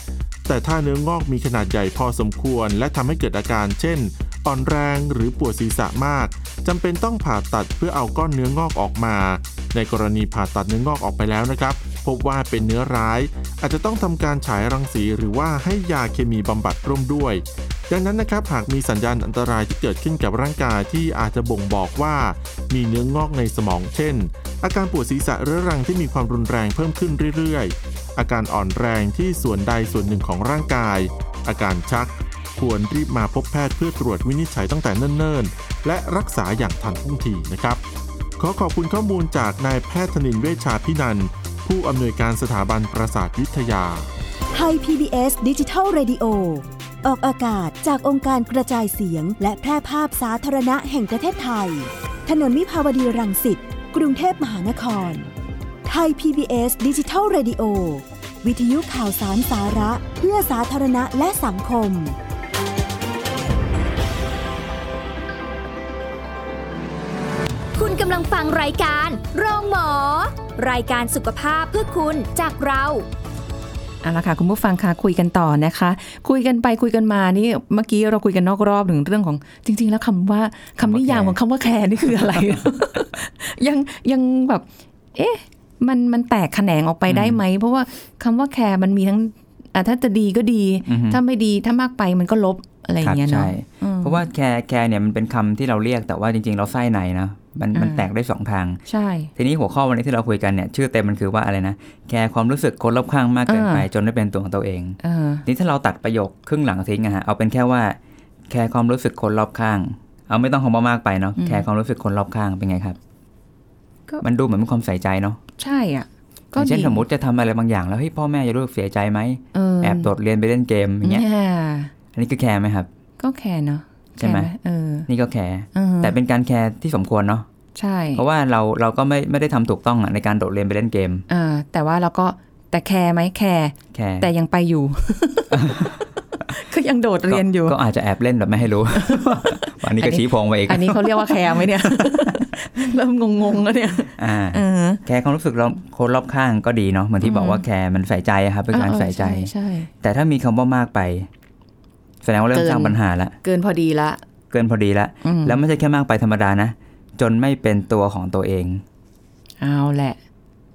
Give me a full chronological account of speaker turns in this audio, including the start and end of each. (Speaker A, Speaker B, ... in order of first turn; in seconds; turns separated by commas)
Speaker A: 0.5-37.8, Speaker A: 38.4-44.1, Speaker B: 44.5-55.3, Speaker B: 55.9-62.2, Speaker C: 67.8-73.0, Speaker D: 74.0-94.2, Speaker E: 80.8-81.4, Speaker E: 82.1-82.6, Speaker E: 87.1-87.4, Speaker E: 90.9-91.2, Speaker E: 93.0-98.8, Speaker D: 97.7-98.1, Speaker D: 98.9-99.3, Speaker E: 99.3-108.0, Speaker D: 103.5-103.9, Speaker D: 105.0-105.5, Speaker E: 108.5-113.0, Speaker D: 111.4-111.6, Speaker E: 114.2-115.4, Speaker D: 115.6-117.0, Speaker E: 116.6-121.3, Speaker D: 119.5-120.1, Speaker D: 121.0-121.9, Speaker E: 122.1-122.9, Speaker D: 123.2-125.1, Speaker E: 124.2-124.5, Speaker E: 125.1-127.5, Speaker D: 125.7-126.2, Speaker D: 127.8-128.2, Speaker E: 128.2-131.3, Speaker D: 131.3-137.8, Speaker E: 133.9-134.3, Speaker E: 135.5-136.0, Speaker E: 137.3-142.5, Speaker D: 138.9-145.0, Speaker E: 144.2-151.3, Speaker D: 147.2-147.6, Speaker D: 148.7-149.9, Speaker E: 152.2-153.4, Speaker D: 152.5-154.2, Speaker E: 154.5-158.8, Speaker D: 155.2-155.6, Speaker D: 159.6-160.2